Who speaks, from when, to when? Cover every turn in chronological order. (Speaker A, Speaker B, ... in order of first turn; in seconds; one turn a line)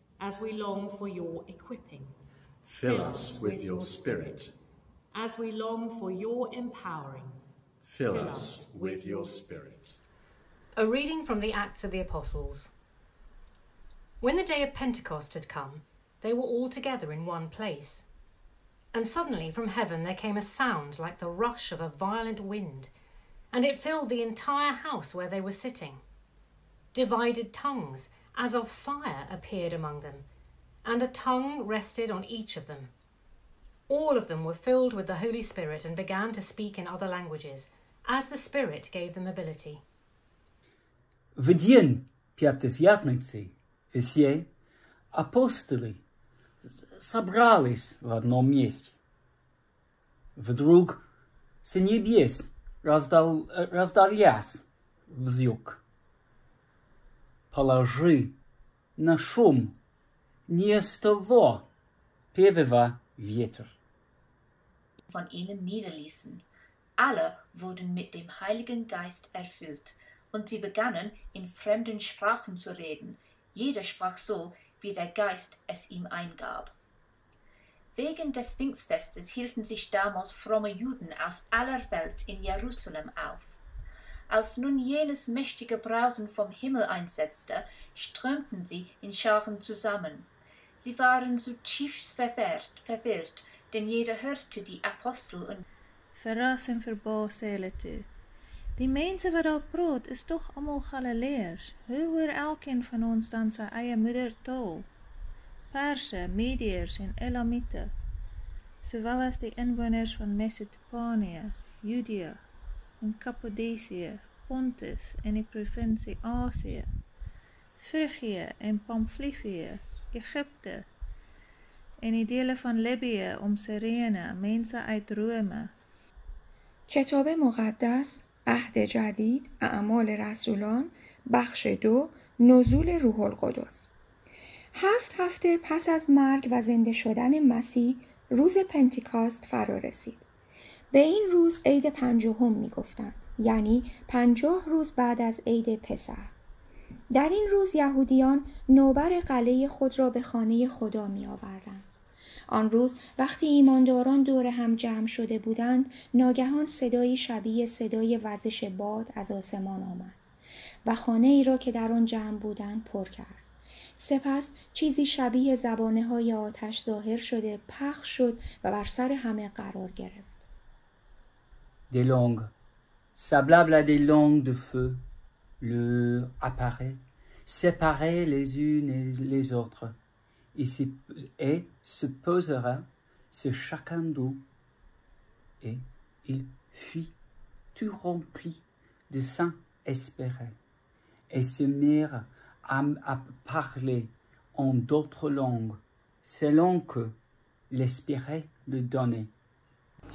Speaker A: 0.2-2.2
Speaker B: 2.6-4.5
Speaker A: 2.8-4.4
Speaker A: 5.1-7.4
Speaker B: 7.8-9.9
Speaker A: 8.1-9.6
Speaker A: 10.8-12.7
Speaker A: 14.2-18.1
Speaker A: 18.9-22.9
Speaker A: 23.5-26.0
Speaker A: 26.9-30.3
Speaker A: 30.8-32.9
Speaker A: 33.9-39.8
Speaker C: 41.3-44.5
Speaker C: 45.1-46.0
Speaker C: 46.6-49.0
Speaker C: 50.4-51.0
Speaker C: 51.6-55.8
Speaker C: 57.5-58.4
Speaker C: 59.0-59.8
Speaker C: 60.5-61.7
Speaker C: 62.3-63.8
Speaker D: 65.1-76.8
Speaker D: 78.0-83.6
Speaker D: 84.3-95.6
Speaker E: 96.2-98.1
Speaker E: 98.8-104.9
Speaker E: 105.7-107.9
Speaker E: 108.8-112.4
Speaker E: 113.0-116.9
Speaker E: 117.8-120.9
Speaker E: 122.0-125.7
Speaker F: 126.9-133.9
Speaker F: 134.7-140.3
Speaker F: 140.9-146.3
Speaker F: 147.1-152.0
Speaker F: 152.5-160.3
Speaker F: 160.8-163.4
Speaker F: 164.0-170.4
Speaker C: 171.9-172.5
Speaker C: 173.2-175.0
Speaker C: 175.6-180.0
Speaker C: 180.5-184.4
Speaker C: 185.6-187.1
Speaker C: 187.7-190.6
Speaker C: 191.3-197.2
Speaker C: 197.7-199.3